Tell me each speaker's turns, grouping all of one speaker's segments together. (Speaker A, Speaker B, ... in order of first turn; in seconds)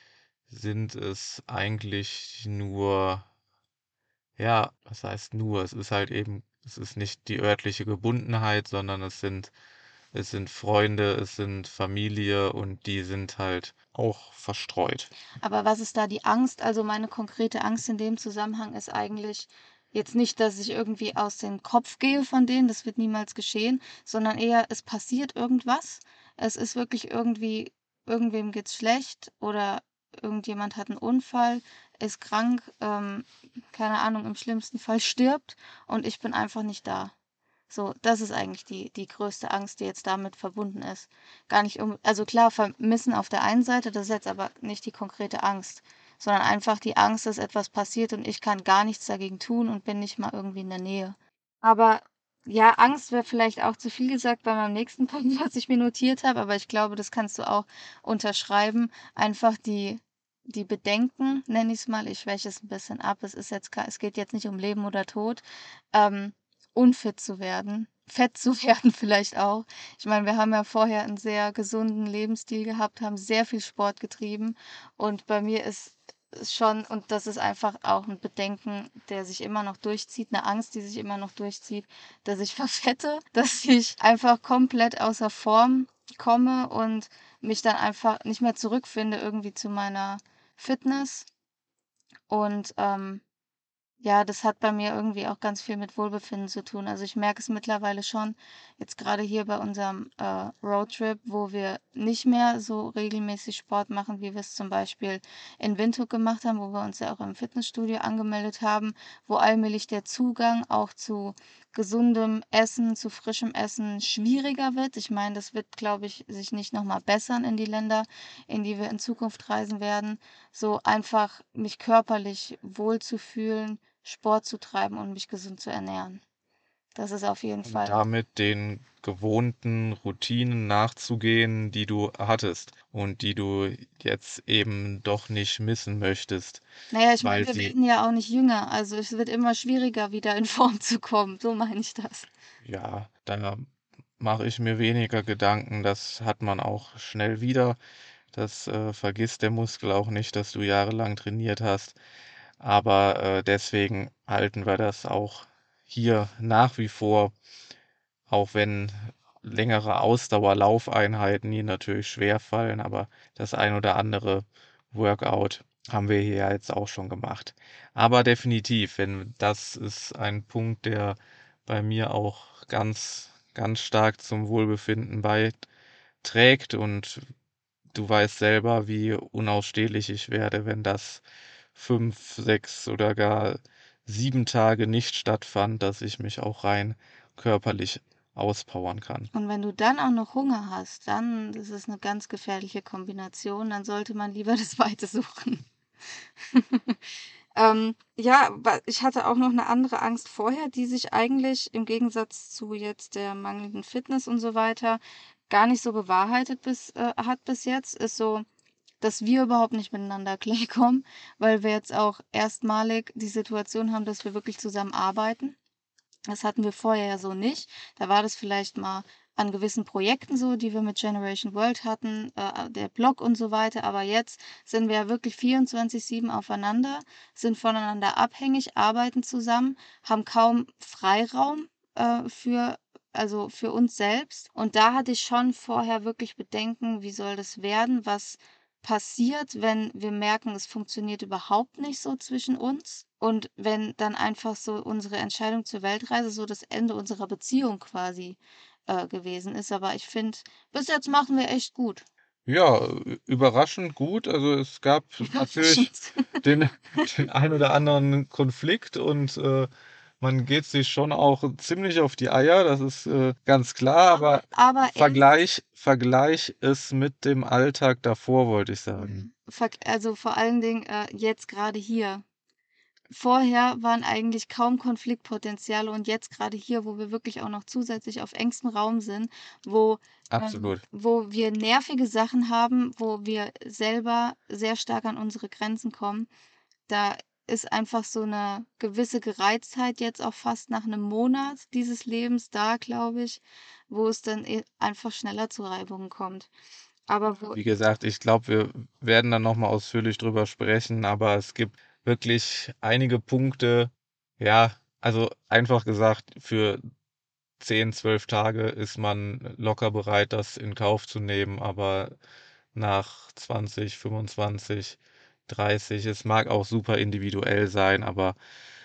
Speaker A: 0.5-3.2, 4.4-9.5, 10.1-15.1, 127.6-136.6, 137.2-137.7, 142.6-143.7, 144.2-147.8, 148.3-152.0, 152.6-157.3, 158.3-175.6, 176.2-177.2, 177.9-181.2, 181.7-189.3, 252.4-255.9, 256.4-259.7, 260.2-269.2, 280.3-280.8, 297.5-306.8, 307.6-312.1, 312.7-318.4
Speaker B: 15.4-37.1, 37.7-91.3, 92.3-93.2, 94.0-126.2, 127.0-128.0, 136.9-142.3, 189.3-195.7, 196.5-197.0, 197.6-208.4, 209.0-215.6, 216.3-252.0, 255.2-256.4, 264.1-265.4, 269.0-272.2, 273.1-286.3, 286.9-296.5, 297.1-297.6